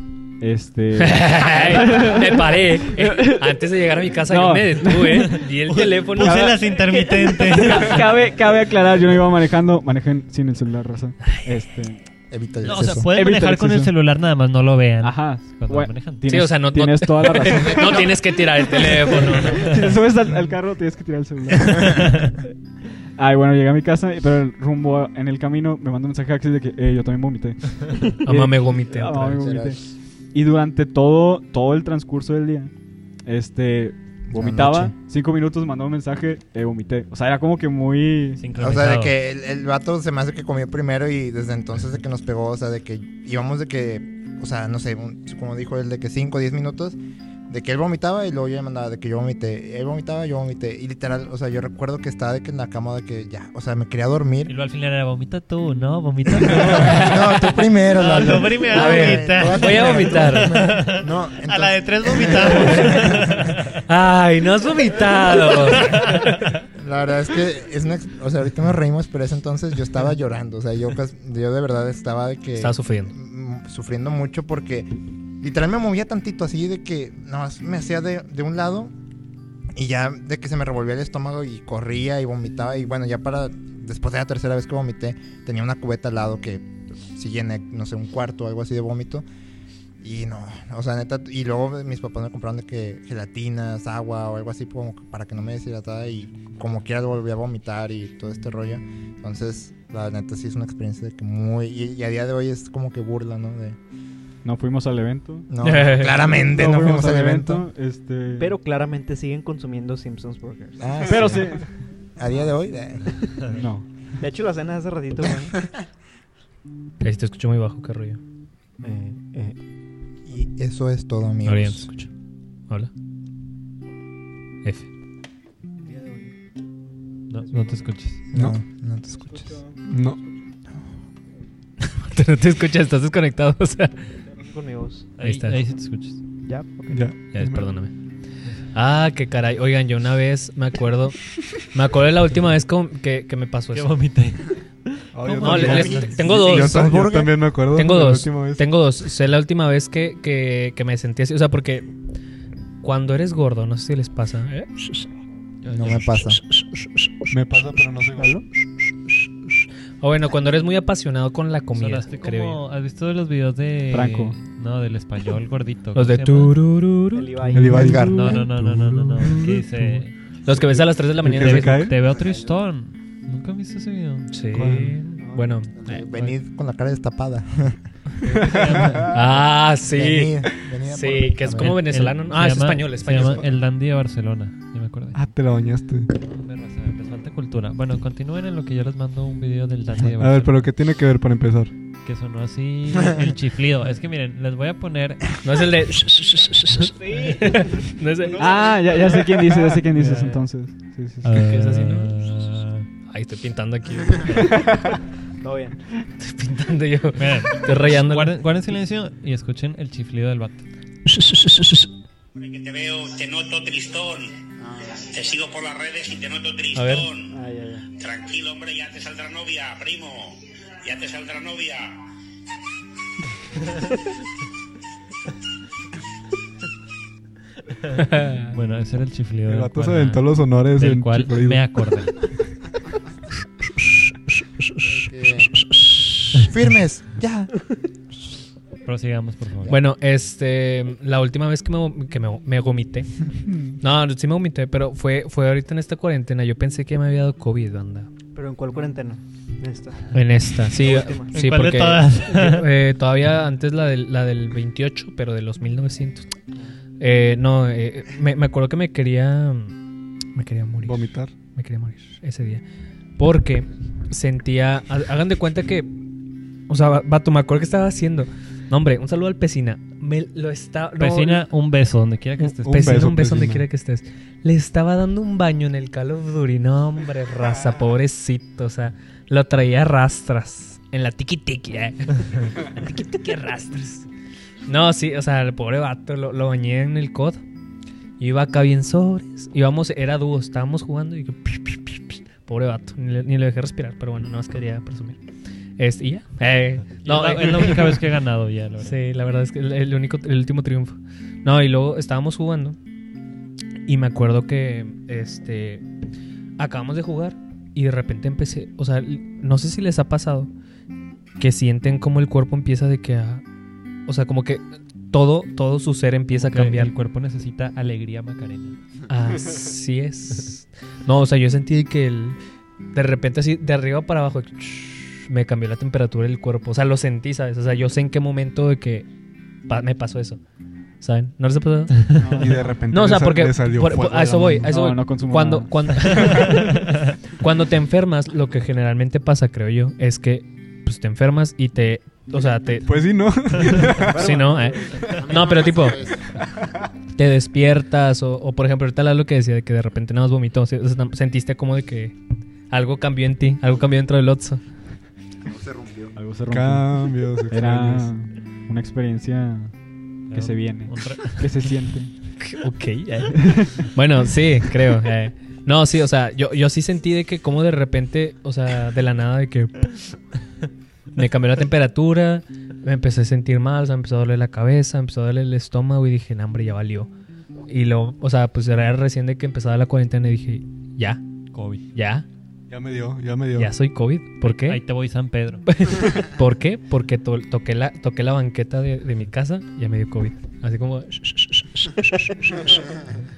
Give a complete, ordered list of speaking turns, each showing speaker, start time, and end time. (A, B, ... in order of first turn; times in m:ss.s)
0:00.4-0:03.6 A
0:01.0-0:06.5 B
0:04.3-0:05.4 A
0:05.7-0:08.1 C
0:06.2-0:12.0 A
0:12.3-0:13.1 D
0:12.6-0:16.2 C
0:12.7-0:13.9 A
0:15.0-0:22.4 A
0:16.3-0:19.8 B
0:17.6-0:18.2 D
0:23.2-0:29.8 A
0:28.2-0:29.5 B
0:29.4-0:29.8 D
0:30.3-0:32.7 A
0:33.2-0:38.4 A
0:34.3-0:34.9 D
0:38.4-0:39.2 C
0:38.6-0:47.0 D
0:47.5-0:54.5 D
0:54.5-1:03.6 C
0:56.4-1:03.6 D
0:58.7-1:00.6 B
1:03.9-1:06.3 B
1:05.7-1:06.4 C
1:05.7-1:06.1 D
1:06.7-1:18.9 D
1:12.6-1:13.1 B
1:19.7-1:29.2 D
1:30.0-1:43.8 D
1:44.4-1:45.5 A
1:45.5-1:47.6 D
1:45.6-1:46.3 B
1:46.2-1:48.5 A
1:48.4-1:51.0 E
1:50.8-1:51.6 D
1:51.0-1:51.6 A
1:52.2-1:53.2 D
1:53.5-1:53.8 A
1:54.2-1:55.5 E
1:57.0-1:58.2 B
1:58.8-1:59.6 E
2:00.3-2:01.9 D
2:01.4-2:02.1 B
2:05.8-2:06.3 E
2:07.3-2:08.2 C
2:07.4-2:08.0 E
2:08.3-2:09.6 D
2:09.3-2:09.8 E
2:09.8-2:10.2 F
2:11.8-2:14.0 B
2:14.4-2:15.1 E
2:15.2-2:16.2 C
2:15.2-2:15.6 B
2:16.4-2:17.0 E
2:16.9-2:17.7 F
2:17.3-2:17.9 B
2:18.7-2:23.9 B
2:23.7-2:26.2 C
2:25.1-2:28.6 F
2:25.4-2:26.8 B
2:25.6-2:27.4 D
2:27.7-2:31.9 B
2:32.8-2:35.0 B
2:35.7-2:36.4 D
2:35.7-2:37.3 B
2:37.3-2:38.4 F
2:38.2-2:38.4 E
2:40.0-2:42.6 B
2:41.7-2:46.5 C
2:43.9-2:44.4 A
2:45.9-2:48.4 B
2:47.1-2:48.1 E
2:47.5-2:49.9 F
2:47.7-2:48.4 D
2:48.1-2:50.1 C
2:49.2-2:49.6 B
2:50.4-2:51.9 B
2:50.5-2:52.0 F
2:51.3-2:54.3 C
2:52.1-2:52.5 D
2:54.3-2:56.3 B
2:54.5-2:55.0 F
2:55.2-2:55.6 E
2:55.7-2:57.8 D
2:58.2-2:59.1 F
2:58.2-2:59.2 C
2:59.1-3:03.5 B
2:59.9-3:01.8 D
3:01.6-3:05.2 C
3:05.1-3:06.1 F
3:06.1-3:10.7 C
3:10.1-3:11.7 F
3:12.0-3:15.4 C
3:15.4-3:18.6 B
3:16.9-3:19.2 E
3:18.4-3:21.3 A
3:21.2-3:22.9 C
3:21.4-3:22.1 B
3:23.1-3:24.5 B
3:25.4-3:25.8 E
3:26.2-3:28.3 B
3:27.2-3:30.6 C
3:31.1-3:31.8 B
3:32.4-3:37.3 G
3:36.7-3:37.1 B
3:37.3-3:37.8 E
3:38.0-3:42.0 G
3:48.0-3:48.5 B
3:48.5-3:52.2 C
3:49.5-3:51.6 F
3:54.8-3:55.7 D
3:55.5-3:56.1 B
3:56.4-3:57.6 D
3:58.8-3:59.8 C
3:59.7-4:03.1 B
4:03.5-4:03.7 F
4:03.8-4:08.1 B
4:08.3-4:10.2 E
4:10.1-4:16.3 B
4:10.7-4:11.3 E
4:11.3-4:12.7 C
4:17.0-4:19.8 B
4:20.3-4:22.6 B
4:20.8-4:21.3 F
4:23.2-4:25.9 B
4:26.7-4:31.4 B
4:31.0-4:33.0 C
4:32.6-4:33.6 F
4:32.6-4:44.0 B
4:44.7-4:47.4 B
4:48.2-4:55.2 B
4:55.8-4:57.9 B
4:57.0-4:59.0 C
4:58.8-5:02.8 B
5:03.8-5:05.8 B
5:06.6-5:10.5 B
5:11.4-5:13.4 B
5:14.1-5:16.9 B
5:16.3-5:18.8 C
5:19.1-5:22.4 B
5:22.9-5:29.1 B
5:29.7-5:30.4 B
5:31.0-5:32.0 B
5:32.2-5:32.7 A
5:32.4-5:34.7 F
5:32.9-5:36.9 B
5:34.6-5:35.9 A
5:36.1-5:36.8 C
5:37.4-5:42.9 B
5:42.8-5:44.3 F
5:44.0-5:46.0 B
5:44.1-5:45.1 E
5:45.1-5:46.6 D
5:47.2-5:52.1 B
5:52.7-5:54.6 B
5:55.4-5:56.1 D
5:56.1-5:57.0 A
5:56.5-5:58.1 F
5:57.5-5:59.7 A
6:00.3-6:01.6 C
6:00.3-6:02.1 A
6:02.4-6:09.9 B
6:03.4-6:03.7 A
6:11.1-6:17.1 B
6:17.7-6:21.2 B
6:21.5-6:21.8 C
6:21.9-6:22.2 B
6:22.7-6:23.7 F
6:23.5-6:24.8 B
6:24.4-6:25.6 C
6:25.7-6:32.8 B